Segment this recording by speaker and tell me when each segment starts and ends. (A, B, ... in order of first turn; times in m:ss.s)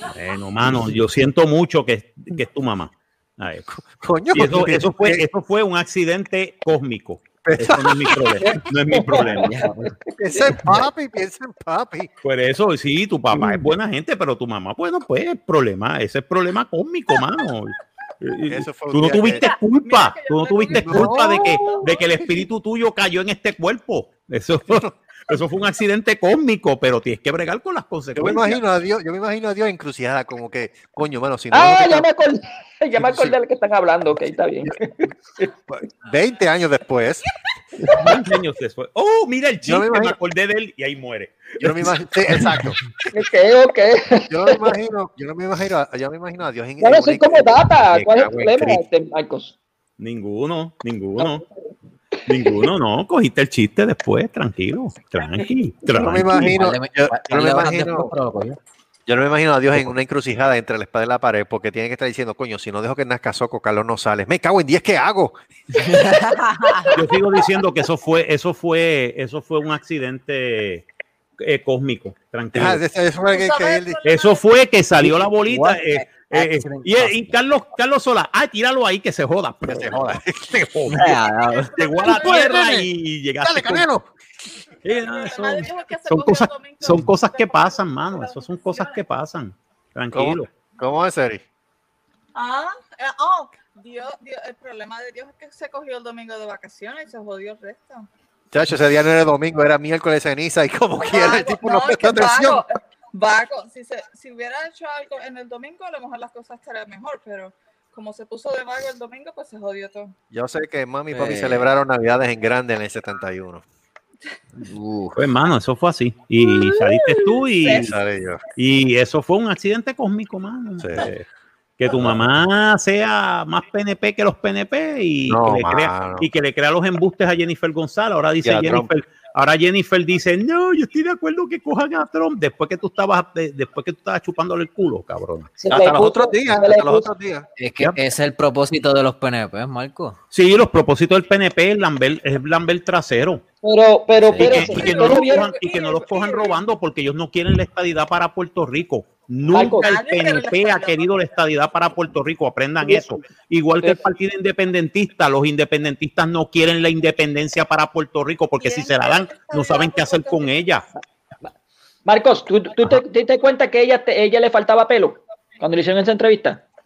0:00.1-0:03.6 A
0:03.7-0:05.2 B
0:04.3-0:09.6 A
0:07.4-0:08.5 B
0:08.9-0:09.7 C
0:09.3-0:09.9 D
0:10.2-0:12.1 B
0:10.6-0:10.9 D
0:12.2-0:28.6 A
0:18.5-0:19.4 B
0:19.4-0:22.1 E
0:20.7-0:22.4 B
0:24.7-0:24.9 B
0:28.2-0:32.1 B
0:31.5-0:35.5 C
0:32.9-0:33.4 B
0:35.7-0:37.2 B
0:37.9-0:38.1 C
0:38.0-0:42.4 A
0:39.6-0:40.2 B
0:41.6-0:42.8 B
0:43.1-0:44.8 C
0:44.3-0:48.8 B
0:46.8-0:49.5 C
0:50.0-0:51.4 A
0:51.2-0:51.6 C
0:52.3-0:56.4 A
0:55.9-0:58.1 B
0:56.2-0:58.6 D
0:59.0-1:05.4 B
1:05.8-1:07.0 D
1:06.0-1:06.9 E
1:06.9-1:10.8 A
1:11.4-1:12.8 A
1:12.5-1:14.0 B
1:13.3-1:14.6 E
1:14.0-1:21.2 A
1:15.0-1:17.2 D
1:19.6-1:20.5 B
1:20.9-1:21.8 D
1:21.6-1:22.6 E
1:21.7-1:23.9 A
1:22.0-1:22.9 B
1:23.4-1:24.1 B
1:24.8-1:30.5 A
1:24.9-1:29.0 E
1:30.1-1:31.4 B
1:32.3-1:38.1 E
1:38.5-1:42.6 B
1:41.0-1:50.1 E
1:50.3-1:53.6 B
1:51.1-1:51.7 D
1:54.7-1:55.2 B
1:55.2-1:57.9 A
1:56.4-1:58.0 E
1:57.6-1:58.4 B
1:58.6-2:01.2 A
2:00.8-2:01.1 B
2:01.8-2:15.6 A
2:05.3-2:06.3 B
2:08.4-2:08.9 B
2:15.6-2:17.1 C
2:15.7-2:18.0 B
2:17.6-2:20.2 D
2:20.3-2:23.4 A
2:23.6-2:25.5 C
2:24.2-2:24.6 B
2:24.3-2:40.8 A
2:24.5-2:26.6 E
2:29.5-2:29.9 C
2:29.6-2:31.3 E
2:38.6-2:40.5 E
2:42.0-2:46.6 C